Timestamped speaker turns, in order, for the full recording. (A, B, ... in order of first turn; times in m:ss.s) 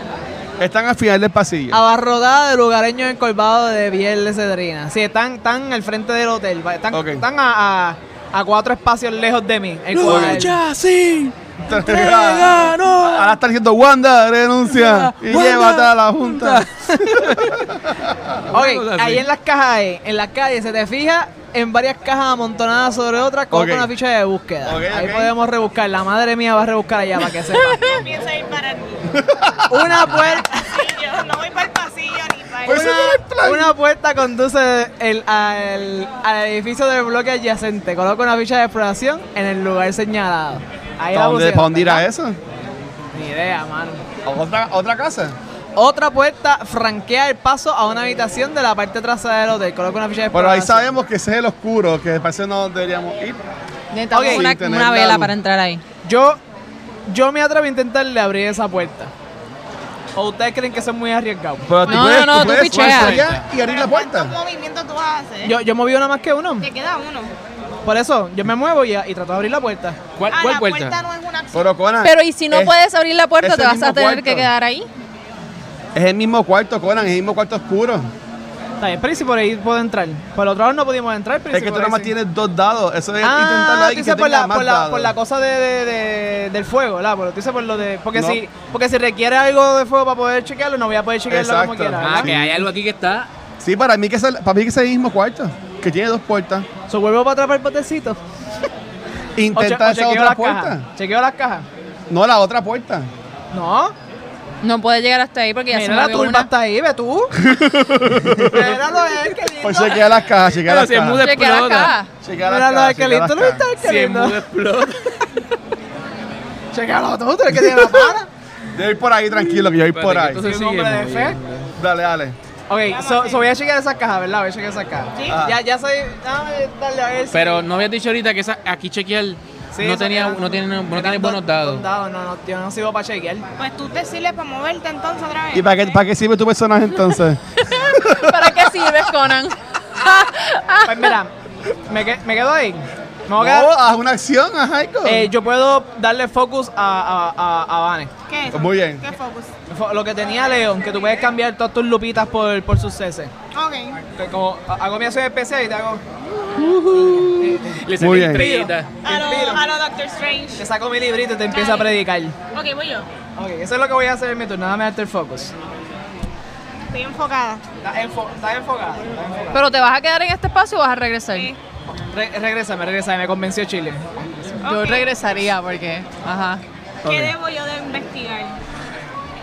0:00.6-0:01.8 A
0:01.7-0:10.6 B
0:06.9-0:07.2 A
0:09.9-0:13.3 C
0:10.0-0:10.5 A
0:11.7-0:18.4 A
0:14.7-0:17.6 C
0:18.5-0:19.2 C
0:18.5-0:28.0 B
0:23.5-0:23.9 A
0:24.6-0:25.3 A
0:27.7-0:29.2 D
0:29.1-0:30.0 A
0:29.7-0:30.9 B
0:30.1-0:33.0 D
0:32.6-0:33.7 A
0:32.7-0:42.0 B
0:41.1-0:42.4 A
0:43.1-0:44.0 B
0:44.2-0:45.4 A
0:45.8-0:50.9 B
0:50.3-0:53.4 A
0:53.9-0:55.8 E
0:54.1-0:54.5 B
0:54.2-0:55.3 A
0:56.0-0:56.4 B
0:57.1-0:59.1 B
1:00.1-1:01.8 B
1:01.6-1:04.3 A
1:01.9-1:03.2 E
1:02.3-1:03.5 C
1:03.5-1:05.6 D
1:05.4-1:06.7 B
1:06.6-1:07.3 D
1:07.8-1:10.0 B
1:10.2-1:11.0 C
1:10.3-1:11.7 D
1:11.5-1:12.8 A
1:12.0-1:14.9 E
1:13.4-1:14.5 A
1:15.9-1:18.1 A
1:18.8-1:22.1 B
1:21.5-1:25.1 A
1:23.2-1:32.3 B
1:28.1-1:28.4 A
1:31.3-1:32.6 A
1:32.0-1:33.3 C
1:33.6-1:36.7 A
1:36.9-1:38.2 B
1:39.4-1:40.8 A
1:39.5-1:41.6 B
1:42.1-1:43.1 A
1:43.5-1:43.9 B
1:44.6-1:46.5 E
1:45.7-1:47.4 B
1:47.4-1:48.8 A
1:48.4-1:50.2 B
1:49.6-1:51.2 A
1:50.6-1:52.0 C
1:51.2-1:52.1 E
1:52.2-1:53.6 A
1:52.4-1:54.4 B
1:53.8-1:55.3 C
1:56.7-1:58.3 B
1:57.6-1:57.9 A
1:58.7-2:00.4 A
1:59.8-2:01.7 C
2:00.4-2:01.4 B
2:01.8-2:02.4 A
2:02.7-2:07.6 B
2:02.9-2:03.5 D
2:05.2-2:05.4 D
2:05.3-2:05.6 A
2:07.3-2:11.8 C
2:09.7-2:13.4 B
2:13.6-2:16.0 D
2:15.5-2:19.1 A
2:17.7-2:21.1 E
2:20.8-2:21.3 B
2:21.9-2:23.7 B
2:23.4-2:25.3 A
2:25.0-2:28.1 B
2:28.3-2:29.5 D
2:28.5-2:29.0 A
2:29.7-2:33.3 B
2:33.5-2:34.0 D
2:34.2-2:36.0 B
2:36.5-2:38.9 C
2:37.4-2:39.6 B
2:38.0-2:38.5 A
2:39.0-2:40.7 D
2:40.6-2:42.3 B
2:41.5-2:42.0 D
2:42.5-2:43.1 D
2:43.4-2:45.5 B
2:46.9-2:47.6 D
2:47.8-2:49.6 B
2:49.5-2:51.5 E
2:51.3-2:51.6 D
2:52.1-2:54.5 B
2:54.6-2:55.1 D
2:54.6-2:56.6 E
2:57.0-2:57.3 A
2:57.0-2:58.6 D